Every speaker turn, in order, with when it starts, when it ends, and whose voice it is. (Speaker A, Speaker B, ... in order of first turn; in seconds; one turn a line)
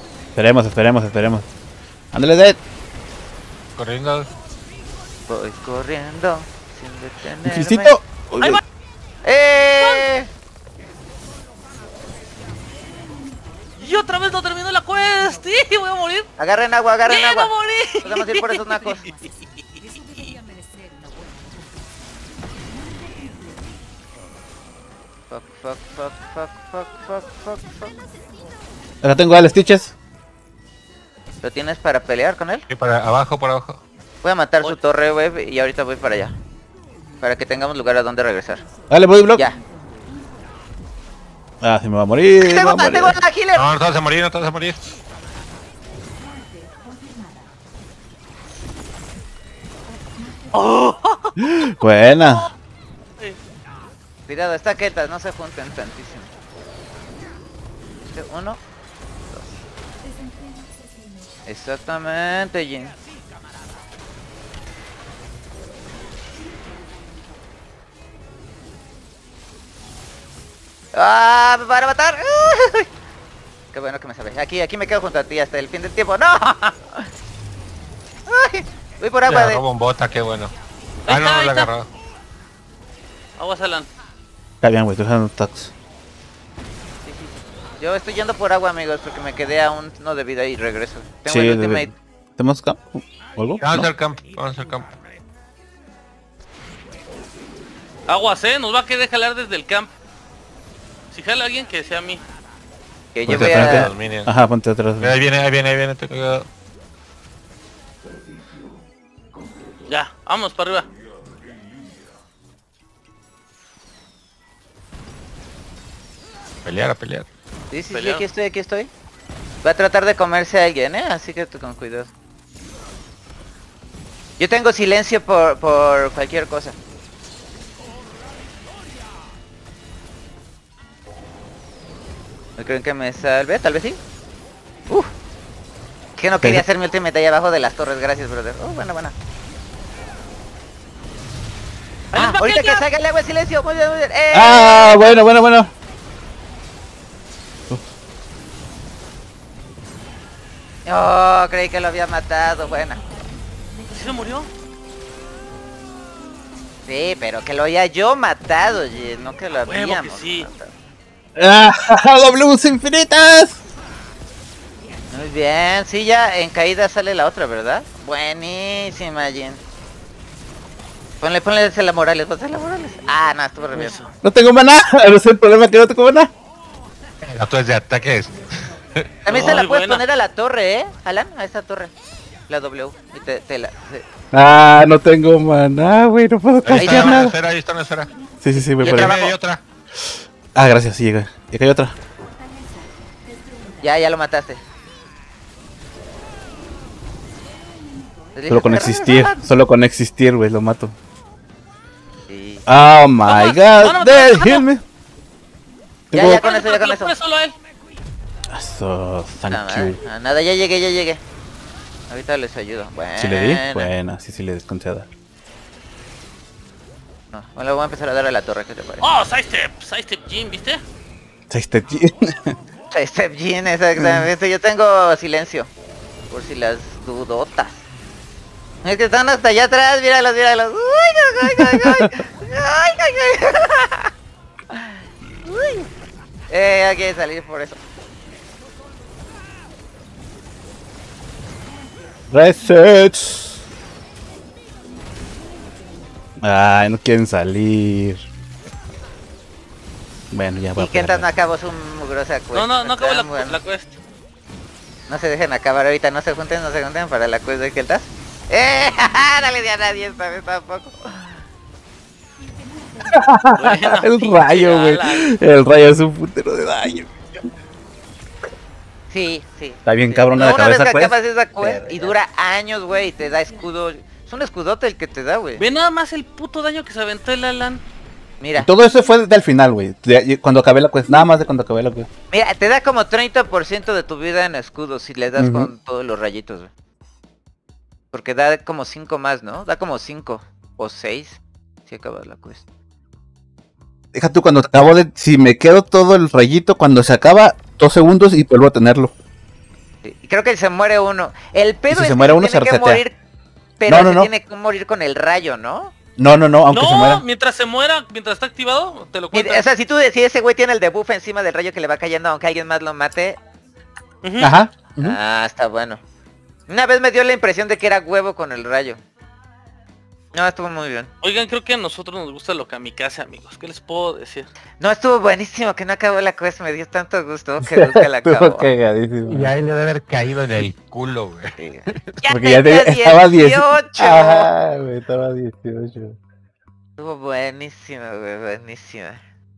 Speaker A: 0.3-1.4
Speaker A: 2.1-2.6
Speaker B: 3.8-4.3
Speaker C: 5.3-8.0
Speaker A: 7.4-8.6
Speaker C: 9.2-10.3
Speaker D: 13.8-16.3
Speaker C: 16.4-19.1
Speaker D: 17.1-18.7
Speaker C: 25.3-27.9
Speaker A: 29.0-29.9
Speaker C: 31.4-32.6
Speaker B: 32.7-33.8
Speaker C: 34.2-36.3
Speaker C: 37.2-38.6
Speaker A: 38.9-39.4
Speaker A: 41.6-43.2
Speaker C: 42.4-43.6
Speaker B: 43.5-44.8
Speaker D: 50.5-51.5
Speaker A: 51.5-52.5
Speaker C: 54.3-56.3
Speaker C: 58.1-58.6
Speaker C: 59.3-59.6
Speaker C: 61.5-62.9
Speaker C: 70.9-72.9
Speaker C: 73.7-77.0
Speaker C: 78.3-79.6
Speaker B: 79.3-80.5
Speaker D: 81.0-81.7
Speaker B: 81.1-81.9
Speaker D: 83.4-83.9
Speaker A: 84.6-85.7
Speaker C: 87.8-91.9
Speaker A: 91.2-93.9
Speaker B: 93.6-94.9
Speaker D: 98.1-99.9
Speaker D: 101.1-102.2
Speaker C: 103.1-103.9
Speaker A: 103.3-105.1
Speaker B: 103.3-104.3
Speaker B: 105.0-106.5
Speaker D: 109.9-110.9
Speaker B: 116.6-117.3
Speaker C: 117.7-118.9
Speaker D: 117.9-118.2
Speaker C: 119.6-122.1
Speaker C: 124.4-126.8
Speaker C: 132.6-134.0
Speaker C: 136.2-139.1
Speaker D: 142.1-142.8
Speaker C: 142.1-145.2
Speaker A: 144.3-145.7
Speaker C: 150.8-153.0
Speaker D: 153.9-154.5
Speaker C: 156.8-160.7
Speaker D: 159.7-160.5
Speaker A: 161.3-163.6
Speaker C: 165.1-169.6
Speaker C: 171.2-174.0
Speaker D: 173.7-174.1
Speaker A: 174.2-176.3
Speaker B: 177.2-179.1
Speaker C: 179.2-181.9
Speaker D: 179.3-180.0
Speaker C: 182.5-184.0
Speaker A: 184.3-187.3
Speaker B: 186.6-188.1
Speaker C: 186.7-187.2
Speaker A: 188.4-189.2
Speaker C: 188.8-189.3
Speaker B: 188.8-189.6
Speaker A: 190.5-191.9
Speaker C: 193.8-194.6
Speaker C: 198.3-199.4
Speaker A: 198.5-200.9
Speaker C: 202.3-202.6
Speaker A: 202.7-204.8
Speaker D: 203.2-204.7
Speaker A: 206.1-206.5
Speaker C: 206.1-207.1
Speaker D: 206.3-207.5
Speaker A: 208.5-210.0
Speaker C: 209.5-211.2
Speaker C: 212.1-213.9
Speaker A: 213.2-215.1
Speaker C: 217.3-219.0
Speaker D: 219.0-220.8
Speaker A: 221.5-222.5
Speaker C: 222.9-225.7
Speaker A: 224.0-224.3
Speaker C: 226.3-227.8
Speaker C: 228.8-234.1
Speaker A: 231.6-232.1
Speaker C: 234.7-235.9
Speaker C: 236.5-237.8
Speaker A: 242.3-243.5
Speaker A: 246.4-248.3
Speaker A: 250.3-251.2
Speaker C: 250.8-253.6
Speaker D: 252.5-254.0
Speaker C: 255.1-261.4
Speaker A: 263.0-267.2
Speaker D: 263.5-265.4
Speaker C: 269.1-275.6
Speaker A: 269.9-272.1
Speaker D: 275.6-277.8
Speaker C: 278.4-278.7
Speaker A: 278.6-282.1
Speaker C: 282.3-286.7
Speaker A: 285.4-285.7
Speaker C: 288.1-292.6
Speaker A: 294.1-299.1
Speaker C: 300.0-303.1
Speaker A: 301.9-303.0
Speaker C: 303.8-305.9
Speaker A: 303.9-304.3
Speaker A: 306.2-307.2
Speaker D: 306.7-309.6
Speaker C: 309.3-313.4
Speaker D: 314.2-314.5
Speaker A: 314.4-315.2
Speaker C: 315.0-316.0
Speaker C: 316.7-319.0
Speaker C: 320.3-321.1
Speaker D: 321.2-324.5
Speaker C: 324.8-328.7
Speaker A: 327.6-329.5
Speaker B: 329.3-332.0
Speaker C: 331.6-334.5
Speaker A: 332.3-336.2
Speaker C: 337.0-339.2